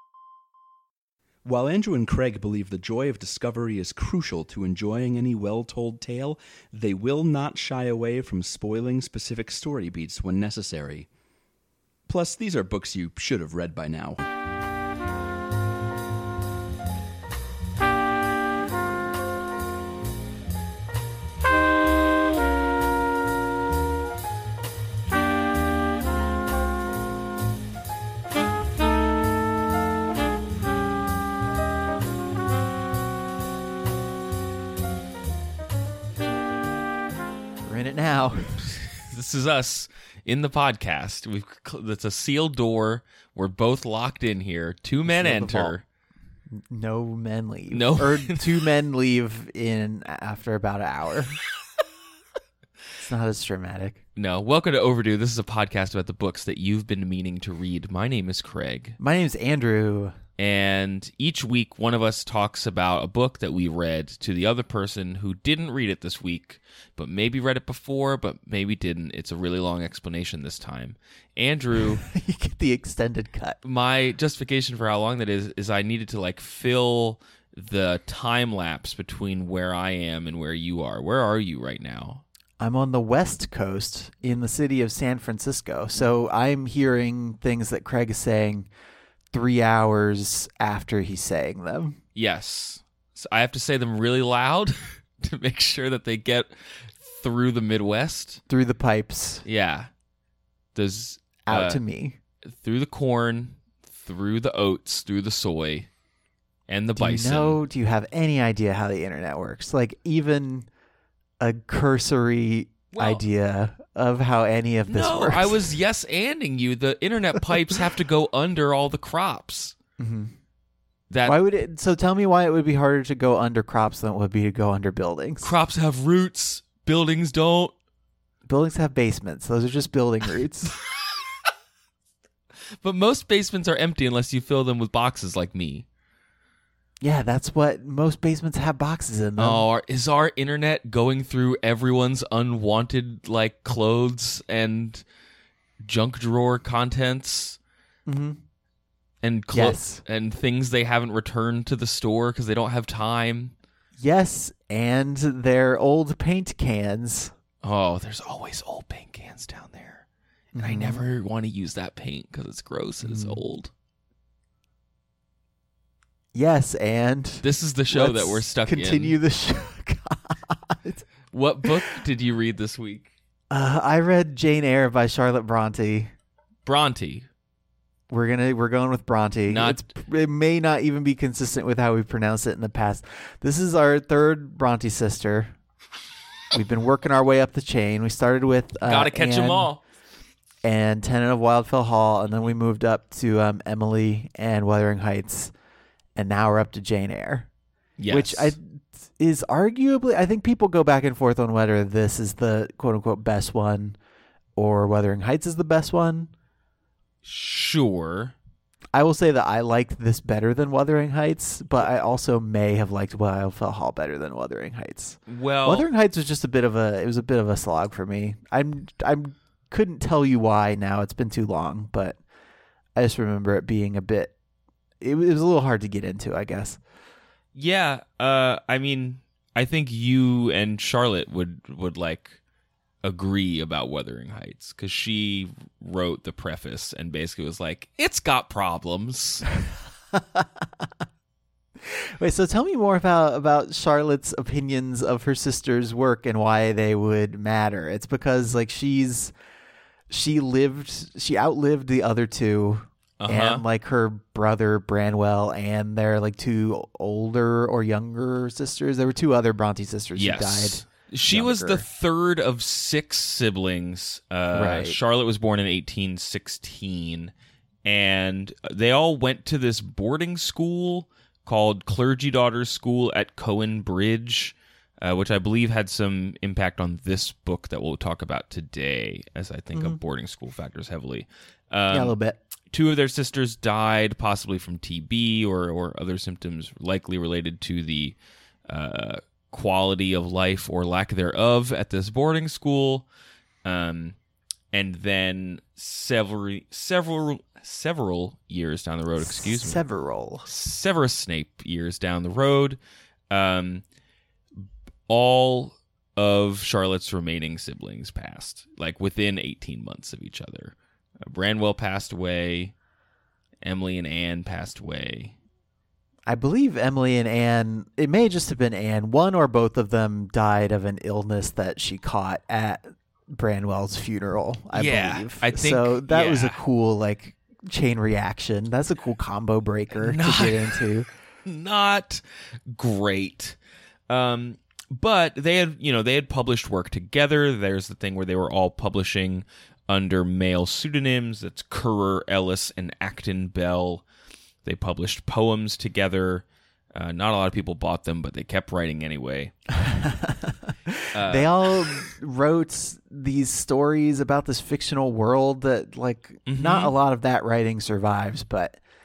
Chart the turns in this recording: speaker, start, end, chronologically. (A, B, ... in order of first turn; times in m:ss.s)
0:01.4-0:11.1 A
0:12.1-0:14.2 A
0:37.6-0:38.8 B
0:38.9-0:45.8 C
0:45.0-0:45.8 B
0:46.5-0:51.4 B
0:47.7-0:48.5 C
0:53.0-0:54.0 B
0:54.2-0:59.0 C
0:59.0-1:00.1 B
1:00.4-1:12.0 C
1:12.0-1:13.6 B
1:13.6-1:22.2 C
1:22.6-1:28.7 B
1:29.3-1:32.0 B
1:32.1-1:38.4 C
1:38.5-1:39.4 B
1:39.4-1:39.9 C
1:40.7-1:41.8 C
1:41.4-1:42.2 B
1:42.4-1:45.9 C
1:46.7-1:47.6 C
1:47.0-1:50.7 B
1:51.4-1:55.7 B
1:52.9-1:53.2 C
1:54.9-1:59.7 C
2:00.0-2:00.3 B
2:01.1-2:01.4 C
2:01.2-2:05.5 B
2:05.4-2:07.7 C
2:08.4-2:10.8 B
2:12.8-2:15.8 C
2:17.0-2:19.6 B
2:19.4-2:25.0 C
2:25.8-2:27.6 C
2:28.0-2:28.4 B
2:29.2-2:33.5 C
2:29.5-2:30.0 B
2:34.0-2:37.3 B
2:37.6-2:40.0 C
2:40.5-2:41.0 B
2:40.6-2:43.7 C
2:43.0-2:43.4 B
2:46.3-2:51.1 B
2:47.4-2:49.2 C
2:51.3-2:53.1 C
2:53.5-2:56.1 B
2:56.6-2:57.3 C
2:58.1-3:05.5 B
2:59.5-2:59.8 C
3:06.5-3:09.7 B
3:08.8-3:09.8 C
3:10.6-3:15.5 B
3:16.2-3:17.5 B
3:18.0-3:18.5 C
3:18.1-3:24.0 B
3:24.6-3:26.3 B
3:27.2-3:28.3 C
3:28.9-3:42.2 B
3:35.3-3:35.9 C
3:42.9-3:44.3 B
3:45.0-3:46.8 B
3:47.5-3:52.4 C
3:53.0-3:59.4 C
4:00.1-4:00.9 B
4:01.8-4:09.3 B
4:10.1-4:21.8 B
4:13.2-4:13.6 C
4:20.2-4:27.3 C
4:24.5-4:25.0 B
4:27.8-4:42.2 C
4:39.7-4:40.0 B
4:41.9-4:42.4 B
4:42.7-4:48.2 C
4:48.7-4:53.1 C
4:53.6-4:54.2 C
4:54.7-4:59.8 C
4:59.2-5:00.5 B
5:00.4-5:02.8 C
5:03.3-5:03.8 C
5:05.1-5:12.7 C
5:13.6-5:15.4 C
5:16.2-5:31.1 B
5:24.7-5:26.6 C
5:29.9-5:30.8 C
5:31.4-5:33.6 C
5:34.1-5:44.0 C
5:44.6-5:49.5 C
5:49.7-5:58.8 B
5:51.1-5:51.5 C
5:56.4-5:56.9 C